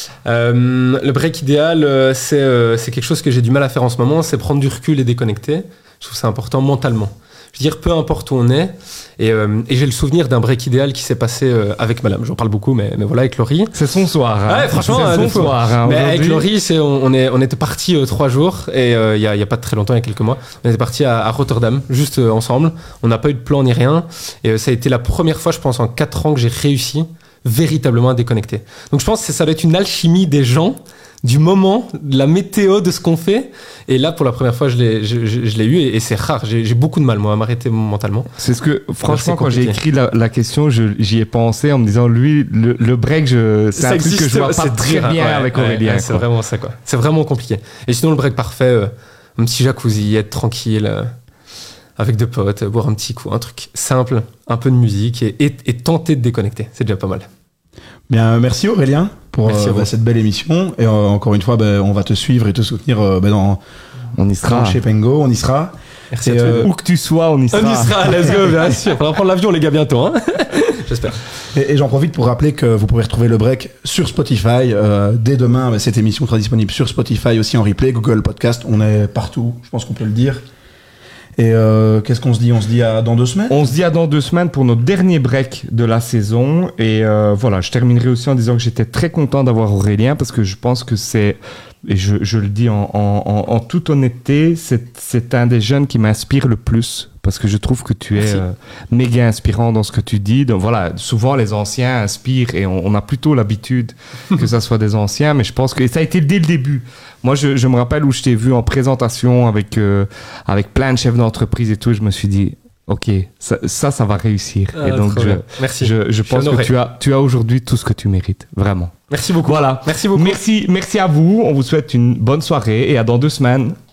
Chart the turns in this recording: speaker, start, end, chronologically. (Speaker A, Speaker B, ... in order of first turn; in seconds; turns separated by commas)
Speaker A: 0.2-13.7, Speaker B: 13.7-16.4, Speaker A: 14.4-38.3, Speaker B: 38.4-46.2, Speaker A: 39.0-39.8, Speaker A: 43.8-51.1, Speaker A: 52.0-57.3, Speaker C: 58.1-63.6, Speaker A: 59.4-59.9, Speaker B: 64.2-64.8, Speaker C: 64.4-65.7, Speaker A: 66.1-66.7, Speaker C: 66.2-66.7, Speaker B: 66.6-68.1, Speaker A: 67.5-71.2, Speaker C: 71.5-80.4, Speaker C: 81.4-83.6, Speaker B: 83.5-123.8, Speaker A: 114.7-116.7, Speaker A: 119.1-120.4